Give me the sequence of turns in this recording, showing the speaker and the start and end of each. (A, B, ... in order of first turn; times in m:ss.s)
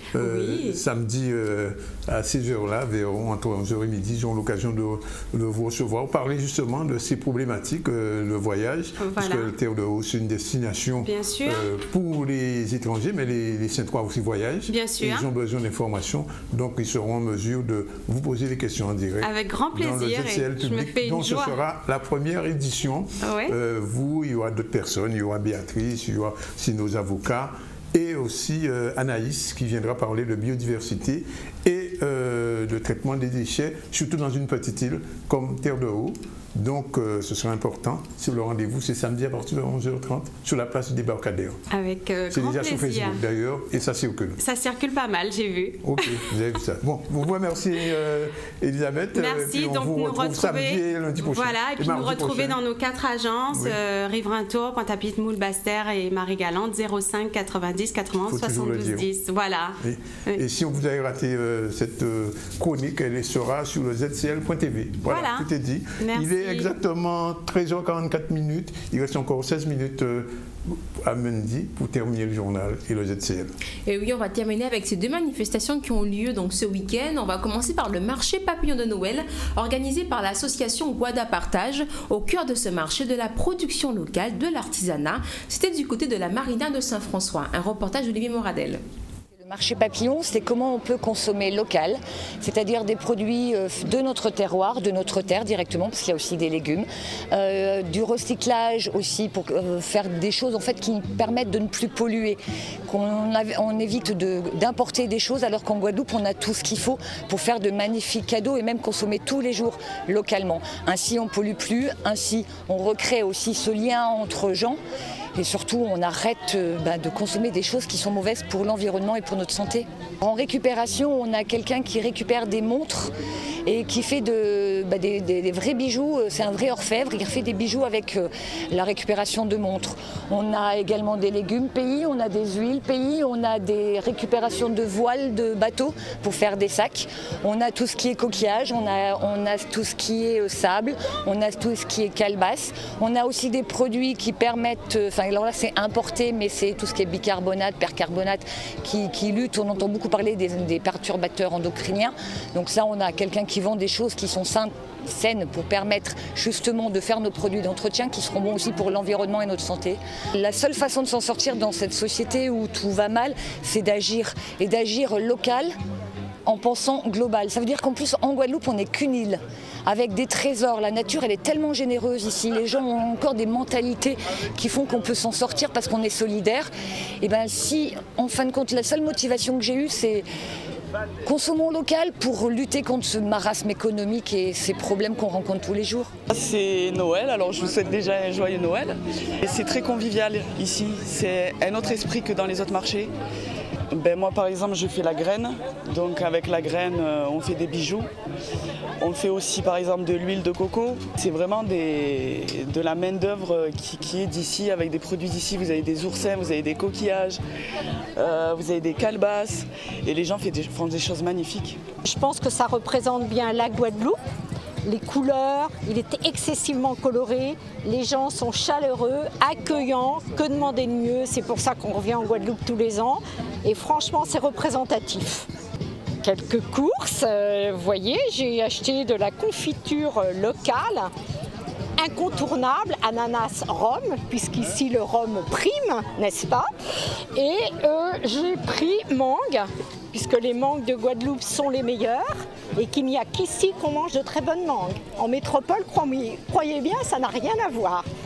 0:00.2-0:41.6 A
0:00.2-0:00.8 B
0:09.0-0:09.5 B
0:11.0-0:11.7 B
0:14.7-0:15.3 B
0:19.2-0:21.6 B
0:23.2-0:23.6 B
0:41.7-0:43.2 B
0:42.3-0:44.4 A
0:44.4-0:46.2 B
0:45.8-0:52.6 A
0:49.2-1:00.4 B
0:53.5-0:53.8 A
0:58.3-0:59.1 A
0:59.8-1:13.5 A
1:05.1-1:05.5 B
1:06.0-1:06.7 B
1:13.9-1:28.8 C
1:29.4-1:54.8 D
1:55.4-2:03.1 D
2:03.7-2:45.7 D
2:46.5-2:56.7 D
2:57.2-3:00.2 D
3:01.2-3:06.1 D
3:06.3-3:13.1 E
3:13.9-3:18.1 E
3:19.0-3:27.4 E
3:28.2-3:31.8 E
3:32.0-3:34.2 F
3:34.8-3:45.5 F
3:46.2-3:51.1 F
3:52.0-3:56.7 F
3:57.4-4:08.1 F